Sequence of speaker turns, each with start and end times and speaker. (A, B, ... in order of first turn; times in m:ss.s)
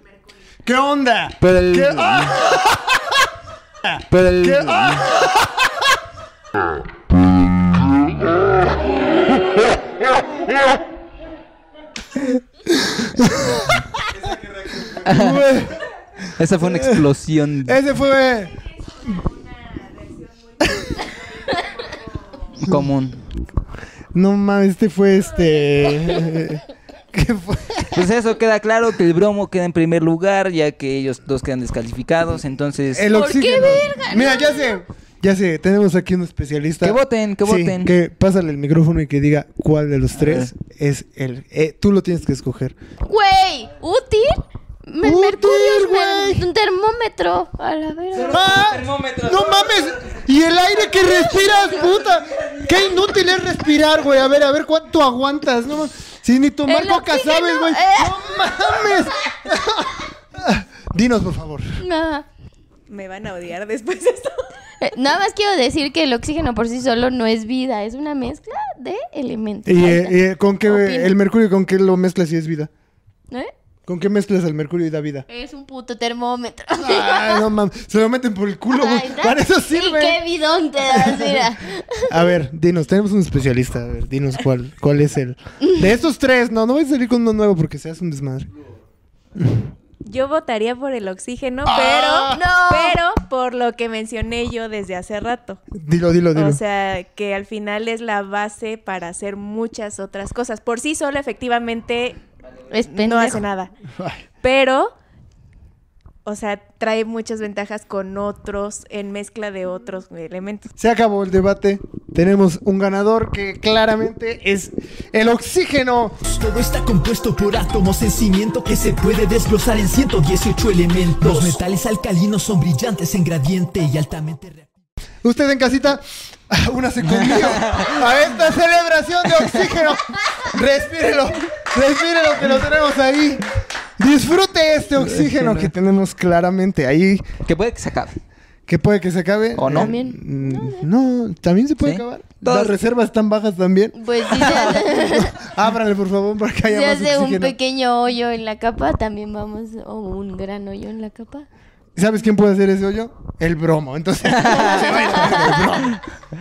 0:00.6-0:03.2 A
0:01.4-0:02.5 B
0:03.8-0:05.9 A
0:04.1-0:05.2 B
0:12.6-0:14.1 A
0:14.8-0:15.8 A
0:15.0-0:15.5 B
0:16.4-0:17.8 B
0:16.6-0:17.0 A
0:17.6-0:18.6 A
0:20.6-0:21.0 A
0:22.6-0:23.2 B
0:24.1-0:28.0 A
0:27.9-0:33.1 B
0:32.9-0:42.7 A
0:33.1-0:34.8 C
0:36.8-0:37.9 B
0:40.1-0:40.5 B
0:43.1-0:48.4 C
0:45.0-0:46.4 A
0:48.1-0:50.0 B
0:48.3-1:01.8 A
0:56.7-0:58.2 C
1:01.8-1:02.2 C
1:02.9-1:04.5 D
1:04.8-1:10.2 C
1:09.6-1:12.7 A
1:10.7-1:11.1 C
1:13.9-1:15.2 A
1:15.3-1:17.4 C
1:16.8-1:20.2 A
1:18.7-1:22.1 C
1:20.8-1:21.5 A
1:22.1-1:28.5 A
1:29.4-1:29.7 A
1:30.0-1:35.6 D
1:31.7-1:32.5 A
1:32.3-1:33.0 C
1:35.7-1:36.6 A
1:36.3-1:42.2 D
1:42.7-1:43.4 C
1:42.9-1:43.7 D
1:44.0-1:44.2 A
1:44.4-1:44.9 D
1:46.2-1:50.7 D
1:50.8-1:56.2 A
1:56.3-2:04.7 E
2:05.2-2:13.4 A
2:07.2-2:08.0 B
2:14.0-2:17.3 A
2:15.0-2:15.7 B
2:17.4-2:18.2 B
2:18.7-2:27.6 A
2:19.6-2:19.9 B
2:19.7-2:20.9 C
2:21.8-2:22.8 B
2:24.0-2:25.4 C
2:26.7-2:31.5 C
2:32.0-2:36.0 A
2:34.4-2:35.3 B
2:34.4-2:35.6 C